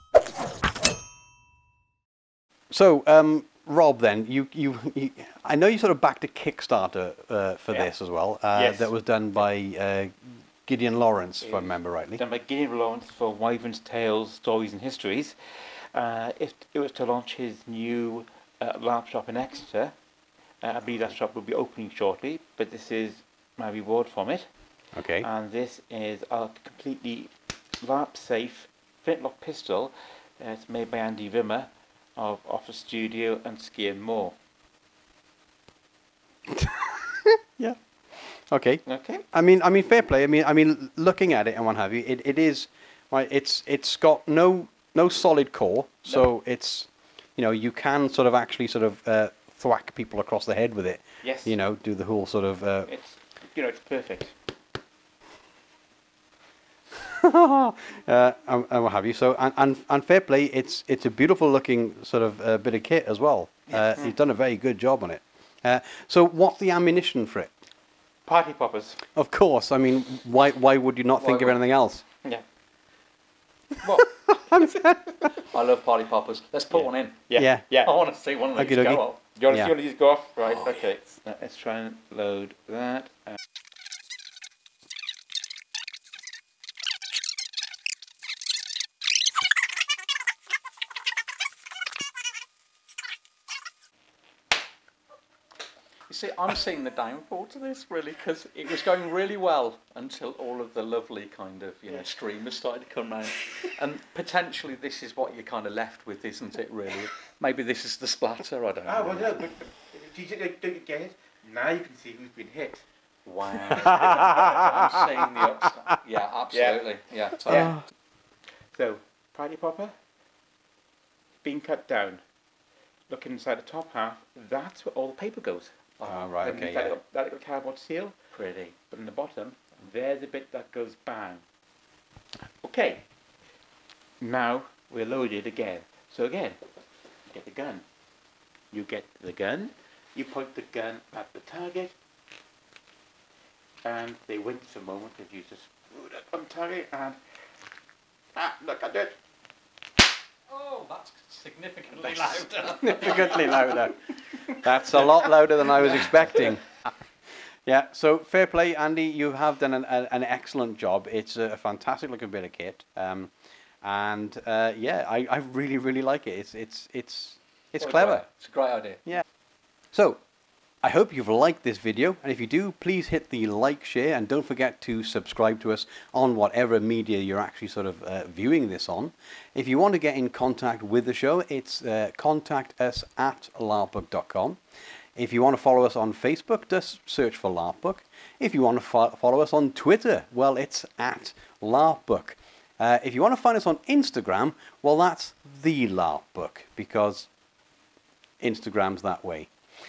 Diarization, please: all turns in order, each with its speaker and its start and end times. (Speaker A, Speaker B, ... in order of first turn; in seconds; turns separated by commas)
Speaker A: 2.7-12.2, Speaker B: 8.5-8.9, Speaker B: 11.4-15.3, Speaker B: 15.9-19.9, Speaker B: 20.6-24.4, Speaker A: 24.9-25.3, Speaker B: 25.2-34.4, Speaker A: 36.5-52.9, Speaker B: 38.9-39.3, Speaker B: 51.2-51.5, Speaker B: 52.9-54.4, Speaker A: 57.0-67.5, Speaker B: 63.7-64.1, Speaker B: 68.3-69.0, Speaker A: 69.2-72.0, Speaker C: 71.2-71.5, Speaker C: 73.8-74.2, Speaker A: 74.3-75.0, Speaker C: 75.5-77.2, Speaker B: 77.3-77.9, Speaker A: 77.4-77.7, Speaker C: 77.8-79.2, Speaker A: 78.5-79.7, Speaker B: 79.3-83.4, Speaker C: 96.1-109.4, Speaker B: 108.8-112.8, Speaker C: 113.3-117.8, Speaker B: 113.6-114.5, Speaker B: 116.5-116.8, Speaker B: 117.5-117.8, Speaker B: 118.7-119.9, Speaker B: 121.4-122.2, Speaker B: 123.1-131.4, Speaker A: 126.0-127.0, Speaker B: 132.6-133.0, Speaker B: 134.2-136.6, Speaker B: 137.3-137.8, Speaker B: 138.7-141.9, Speaker B: 143.8-147.2, Speaker B: 148.4-149.2, Speaker C: 150.5-153.8, Speaker A: 152.4-156.7, Speaker A: 157.6-163.3, Speaker A: 163.8-168.2, Speaker C: 167.8-169.2, Speaker A: 169.9-170.2, Speaker A: 170.8-184.6, Speaker A: 185.2-197.3, Speaker A: 198.4-199.5